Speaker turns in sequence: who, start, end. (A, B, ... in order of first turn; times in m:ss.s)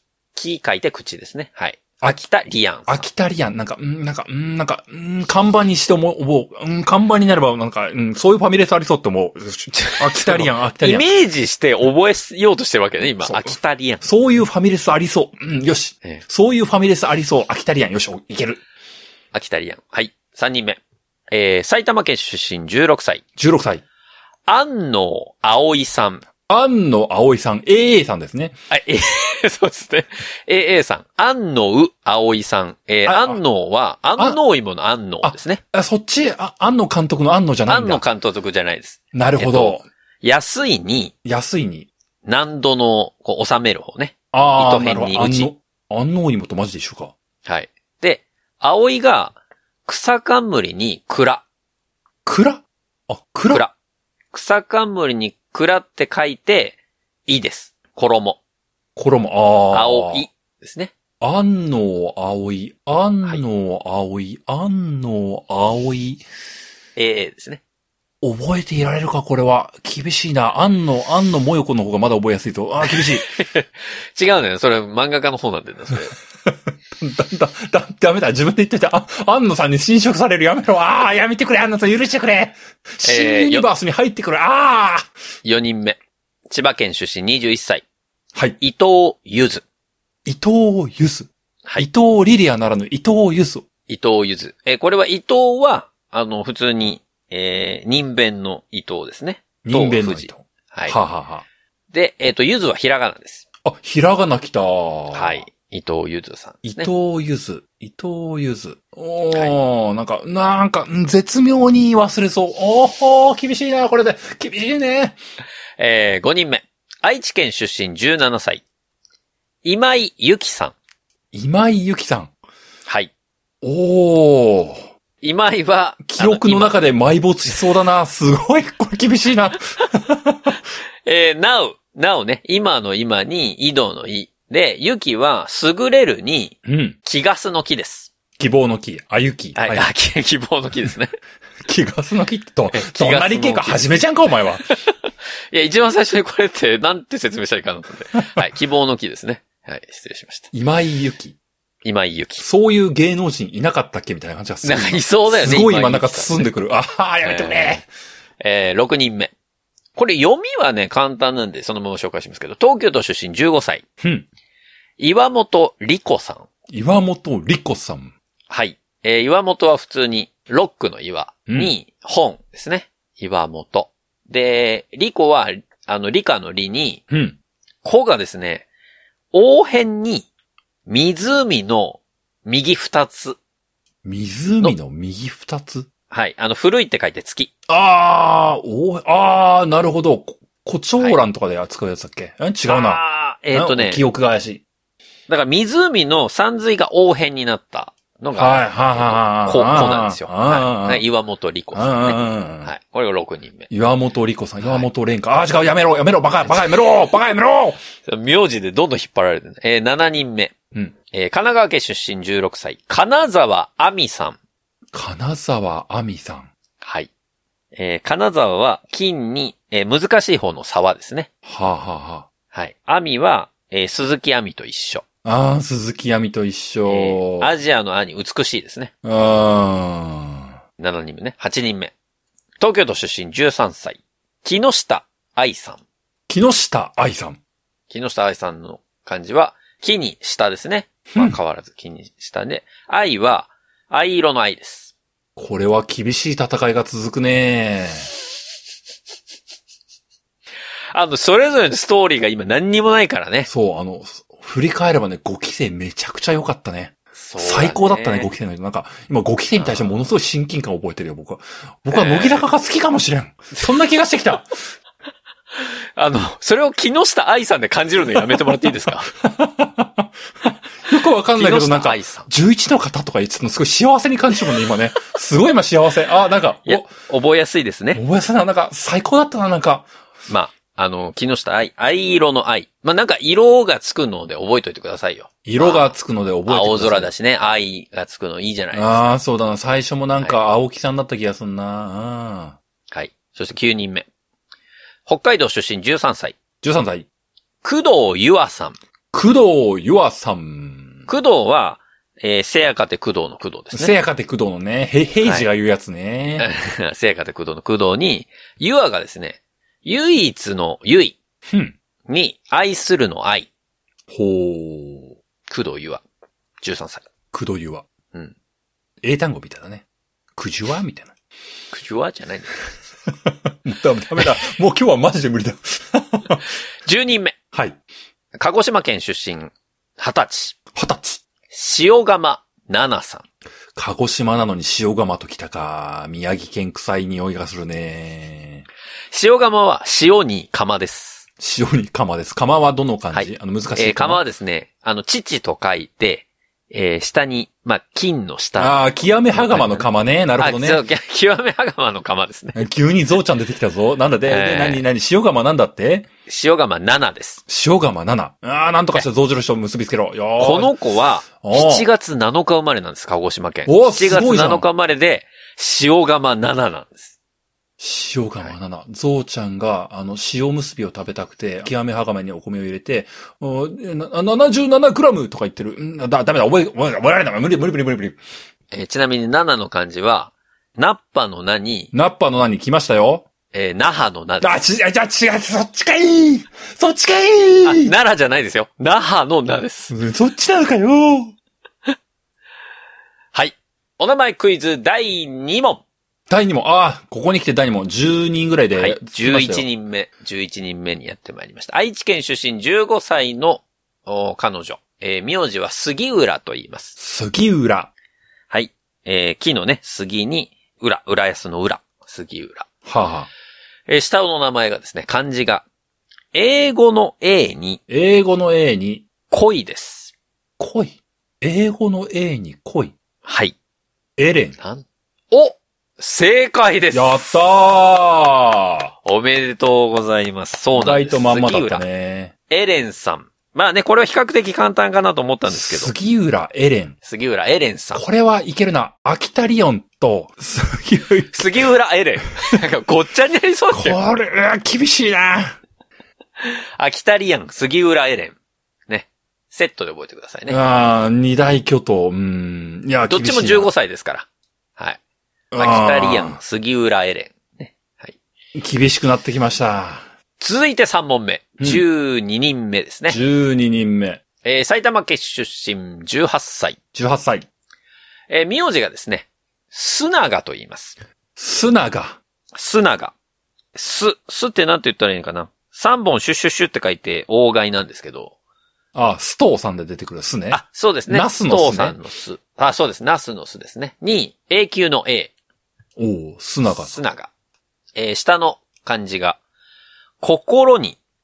0:00.3-0:03.1 A
0:02.9-0:11.0 B
0:09.8-0:14.0 A
0:13.2-0:18.6 B
0:19.3-0:20.8 A
0:21.3-0:23.2 A
0:23.4-0:23.8 B
0:24.5-0:26.2 A
0:26.5-0:28.5 B
0:28.7-0:35.6 A
0:33.0-0:33.4 B
0:35.2-0:38.0 B
0:37.7-0:41.1 A
0:39.1-0:39.8 B
0:41.2-0:41.9 B
0:42.2-0:45.5 A
0:44.3-0:47.1 B
0:47.4-0:51.4 A
0:52.2-0:53.6 B
0:54.3-0:58.4 A
0:59.0-1:00.2 B
0:59.7-1:00.9 A
1:01.2-1:06.2 B
1:07.0-1:07.6 A
1:08.2-1:13.3 B
1:12.9-1:16.1 A
1:16.4-1:25.1 B
1:23.0-1:23.7 A
1:25.4-1:27.8 A
1:28.6-1:29.6 A
1:30.2-1:33.6 B
1:33.9-1:41.0 A
1:39.6-1:41.4 B
1:41.9-1:43.4 A
1:43.6-1:45.4 B
1:45.1-1:46.9 A
1:46.6-1:55.2 B
1:49.3-1:49.6 A
1:55.8-1:58.6 A
1:59.6-2:00.7 A
2:01.3-2:02.3 B
2:02.9-2:03.1 A
2:03.6-2:04.8 B
2:05.2-2:06.8 A
2:06.0-2:10.6 B
2:11.0-2:18.1 A
2:16.6-2:17.0 B
2:18.4-2:19.9 B
2:19.6-2:21.2 A
2:21.6-2:24.6 B
2:22.7-2:24.0 A
2:24.6-2:24.9 A
2:25.5-2:30.5 A
2:28.2-2:28.5 B
2:30.5-2:31.4 B
2:31.8-2:32.4 A
2:32.4-2:37.9 B
2:34.6-2:36.5 A
2:37.2-2:37.8 A
2:38.4-2:39.3 A
2:39.9-2:43.8 A
2:44.0-2:44.3 B
2:45.0-2:46.4 A
2:46.7-2:48.1 B
2:48.5-2:57.0 A
2:51.5-2:51.7 B
2:57.1-2:57.4 B
2:57.8-2:58.7 A
2:59.3-3:00.3 A
3:00.8-3:03.4 A
3:04.0-3:05.9 B
3:06.1-3:07.5 A
3:07.7-3:14.6 B
3:12.7-3:14.0 A
3:15.3-3:23.7 A
3:18.4-3:21.0 B
3:21.7-3:22.7 B
3:23.7-3:27.8 B
3:24.6-3:24.9 A
3:28.0-3:30.5 A
3:31.1-3:34.4 A
3:34.9-3:36.5 B
3:36.8-3:37.1 A
3:37.7-3:41.3 A
3:41.4-3:42.3 B
3:42.5-3:45.0 A
3:45.2-3:47.5 B
3:46.9-3:48.9 A
3:49.0-3:50.5 B
3:50.8-3:51.9 A
3:52.6-3:55.8 A
3:56.3-3:57.4 B
3:57.9-4:04.9 A
4:05.4-4:08.1 B
4:10.9-4:13.5 A
4:13.4-4:24.6 B
4:17.2-4:18.3 A
4:19.6-4:20.1 A
4:21.9-4:22.5 A
4:25.6-4:29.1 A
4:28.1-4:36.9 B
4:31.3-4:32.3 A
4:36.6-4:38.0 A
4:37.9-4:39.9 B
4:40.3-4:45.9 A
4:45.4-4:47.1 B
4:46.5-4:49.1 A
4:48.7-4:52.6 B
4:52.9-4:54.0 A
4:55.0-4:56.4 A
4:56.6-4:57.1 B
4:57.6-4:58.8 A
4:59.1-5:01.1 B
5:01.1-5:03.9 A
5:03.7-5:06.5 B
5:05.2-5:05.5 A
5:06.4-5:11.2 A
5:11.5-5:11.7 B
5:12.1-5:13.5 A
5:14.1-5:15.2 B
5:15.5-5:16.0 A
5:16.6-5:17.1 A
5:17.3-5:17.8 B
5:19.0-5:19.8 B
5:20.4-5:21.1 B
5:21.7-5:22.6 A
5:23.1-5:26.4 B
5:26.8-5:27.4 A
5:28.4-5:30.6 A
5:30.7-5:31.2 B
5:31.5-5:33.2 A
5:33.8-5:38.6 B
5:39.1-5:41.2 A
5:41.4-5:44.2 B
5:43.1-5:48.8 A
5:48.6-5:50.8 B
5:49.3-5:49.9 A
5:50.4-5:52.6 A
5:52.5-5:56.1 B
5:54.3-5:54.8 A
5:56.3-5:57.4 A
5:57.5-6:00.7 B
6:00.4-6:07.1 A
6:01.4-6:01.9 B
6:03.6-6:04.6 B
6:07.8-6:18.2 B
6:18.7-6:21.9 A
6:21.9-6:23.2 B
6:23.5-6:24.5 A
6:24.4-6:27.9 B
6:27.6-6:29.9 A
6:29.9-6:31.3 B
6:33.3-6:35.8 A
6:36.3-6:39.6 B
6:38.7-6:46.9 A
6:47.0-6:47.9 B
6:48.5-6:52.7 A
6:52.8-6:53.3 B
6:53.9-6:55.6 A
6:56.3-6:57.8 A
6:57.9-6:59.0 B
6:59.3-7:00.1 A
7:00.6-7:02.9 B
7:03.2-7:03.5 A
7:04.2-7:04.6 B
7:04.6-7:07.3 A
7:06.9-7:08.9 B
7:09.0-7:11.8 A
7:10.7-7:12.3 B
7:12.5-7:15.9 A
7:15.5-7:16.9 B
7:17.0-7:18.0 A
7:17.9-7:21.4 B
7:21.3-7:24.0 A
7:23.7-7:25.6 B
7:26.4-7:28.4 A
7:28.9-7:30.6 A
7:30.5-7:33.7 B
7:33.1-7:35.0 A
7:35.5-7:36.4 B
7:35.6-7:38.2 A
7:38.5-7:40.1 B
7:40.4-7:43.2 A
7:43.1-7:44.2 B
7:44.4-7:46.8 A
7:46.9-7:47.5 B
7:48.3-7:51.0 A
7:51.4-7:52.2 B
7:52.5-7:53.1 A
7:53.7-7:58.3 A
7:58.9-8:02.0 B
8:00.5-8:05.3 A
8:06.0-8:07.0 B
8:06.6-8:07.3 A
8:07.9-8:09.4 A
8:10.2-8:11.0 A